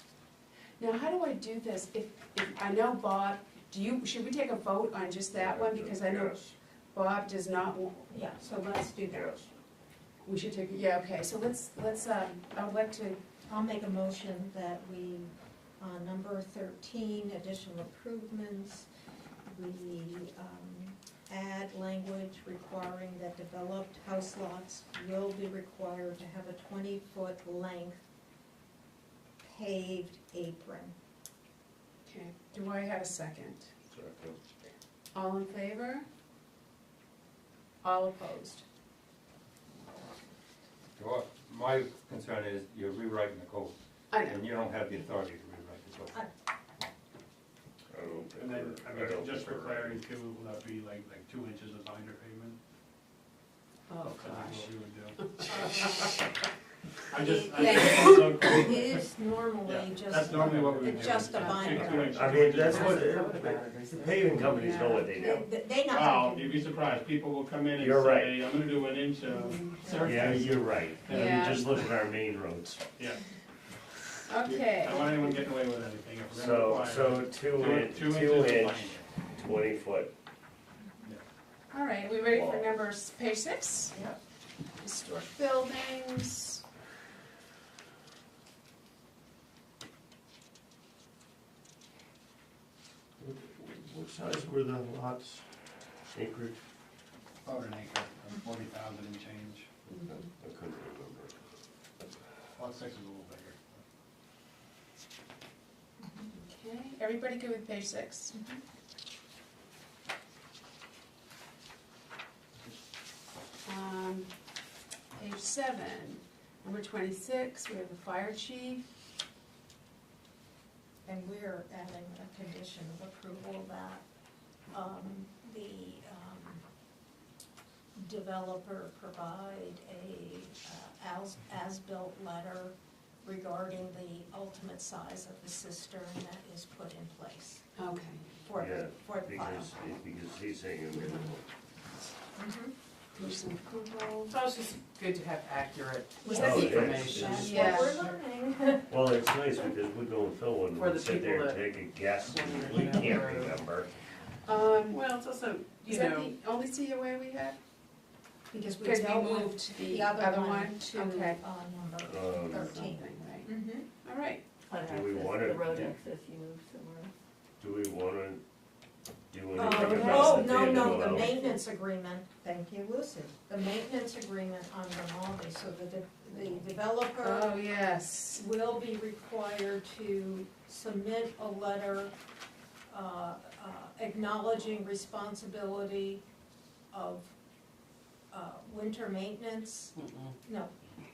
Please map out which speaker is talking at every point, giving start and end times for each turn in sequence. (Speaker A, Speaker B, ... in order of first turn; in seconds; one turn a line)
Speaker A: 0.8-8.1
Speaker B: 5.3-6.5
Speaker C: 8.1-9.5
Speaker B: 9.1-9.4
Speaker A: 10.2-13.2
Speaker C: 13.5-18.9
Speaker C: 19.4-28.0
Speaker C: 29.4-30.9
Speaker A: 32.0-33.7
Speaker B: 33.9-34.4
Speaker A: 35.1-36.0
Speaker A: 37.8-38.6
Speaker D: 41.0-46.2
Speaker A: 44.1-44.4
Speaker B: 47.9-50.0
Speaker E: 48.3-52.6
Speaker A: 53.9-54.7
Speaker E: 54.1-55.2
Speaker A: 55.4-56.1
Speaker C: 55.5-56.1
Speaker E: 57.1-59.0
Speaker C: 57.1-62.9
Speaker A: 57.5-58.5
Speaker E: 59.6-63.2
Speaker B: 61.7-65.5
Speaker F: 62.4-64.7
Speaker A: 64.4-65.1
Speaker C: 64.9-66.7
Speaker E: 65.8-71.9
Speaker B: 67.7-68.4
Speaker A: 69.3-70.1
Speaker B: 70.0-72.9
Speaker A: 71.1-71.6
Speaker E: 72.9-73.2
Speaker A: 74.3-75.3
Speaker E: 74.4-79.1
Speaker B: 76.3-80.1
Speaker A: 81.7-84.0
Speaker B: 82.3-82.7
Speaker A: 84.8-86.6
Speaker B: 93.2-95.5
Speaker B: 96.1-96.6
Speaker E: 97.4-99.7
Speaker B: 99.9-101.4
Speaker A: 100.0-100.2
Speaker E: 102.5-103.8
Speaker C: 106.0-106.3
Speaker A: 106.3-108.3
Speaker C: 108.3-108.6
Speaker A: 113.7-114.3
Speaker A: 115.2-118.8
Speaker C: 121.0-124.0
Speaker C: 124.7-126.6
Speaker C: 128.0-137.6
Speaker A: 137.8-138.3
Speaker C: 138.4-139.7
Speaker B: 138.6-141.5
Speaker A: 140.9-141.3
Speaker C: 142.3-142.7
Speaker A: 143.1-144.3
Speaker F: 144.3-148.0
Speaker C: 146.2-148.9
Speaker A: 146.3-148.0
Speaker B: 146.3-147.5
Speaker B: 148.9-153.9
Speaker F: 150.7-153.7
Speaker A: 154.4-155.0
Speaker F: 154.9-156.3
Speaker A: 155.8-157.6
Speaker C: 158.5-163.8
Speaker A: 158.8-161.4
Speaker B: 162.1-162.9
Speaker A: 162.5-164.4
Speaker G: 164.7-167.1
Speaker B: 164.8-165.9
Speaker B: 167.6-168.4
Speaker B: 169.3-171.4
Speaker C: 169.6-177.6
Speaker A: 177.2-178.4
Speaker C: 178.3-182.1
Speaker C: 182.9-186.2
Speaker C: 186.9-187.3
Speaker C: 188.3-190.7
Speaker F: 189.9-190.3